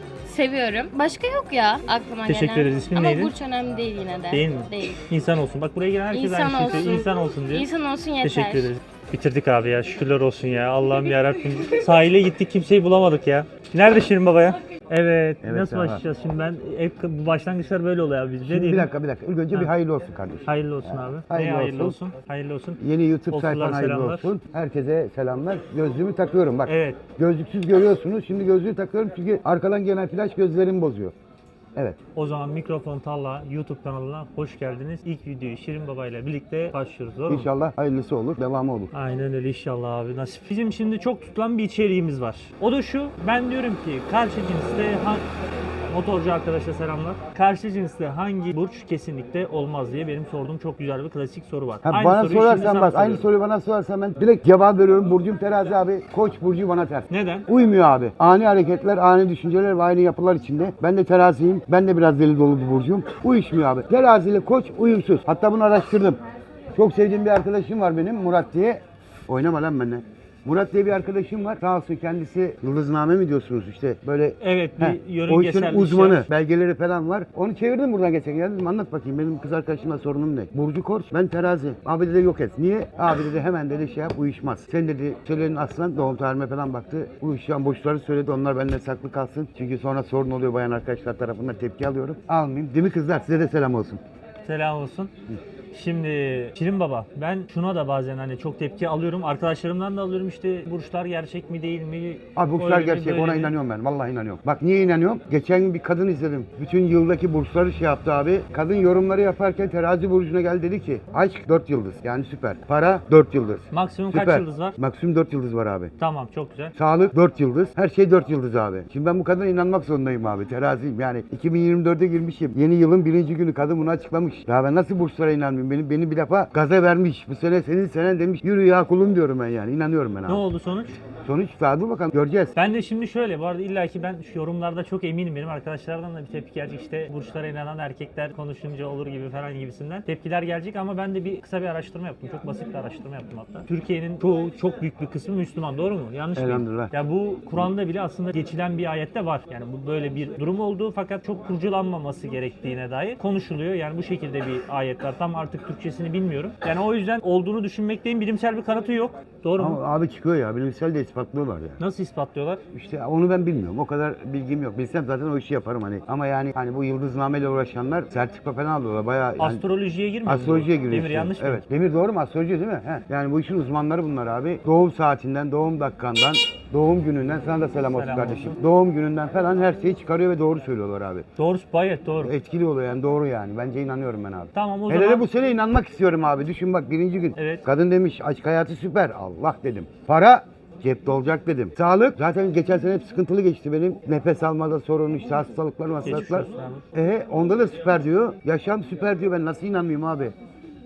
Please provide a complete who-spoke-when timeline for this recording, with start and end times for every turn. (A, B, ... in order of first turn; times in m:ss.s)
0:00.2-0:05.0 A
0:02.3-0:03.3 B
0:04.3-0:07.7 B
0:06.1-0:08.7 A
0:08.2-0:18.9 B
0:15.4-0:16.0 C
0:18.4-0:22.0 C
0:20.4-0:24.3 B
0:22.8-0:31.1 C
0:26.7-0:27.0 B
0:32.1-0:37.5 B
0:37.3-0:38.9 C
0:38.9-0:45.2 B
0:45.9-0:53.2 B
0:51.8-1:06.2 C
0:57.1-0:57.5 B
1:06.7-1:34.0 C
1:14.4-1:16.3 B
1:34.4-1:35.1 B
1:35.7-1:43.5 B
1:42.4-1:55.9 C
1:53.7-1:54.8 B
1:56.0-1:56.7 B
1:56.8-2:10.4 C
2:10.3-2:11.0 B
2:11.2-2:12.6 C
2:12.6-2:39.8 B
2:26.4-2:26.9 C
2:39.6-2:41.8 C
2:41.8-2:42.6 B
2:42.7-2:49.6 C
2:49.4-2:51.6 B
2:50.2-3:01.3 C
2:57.9-2:58.6 B
3:01.4-3:02.3 B
3:02.2-3:20.3 C
3:04.5-3:05.2 B
3:07.4-3:07.6 B
3:16.0-3:16.8 B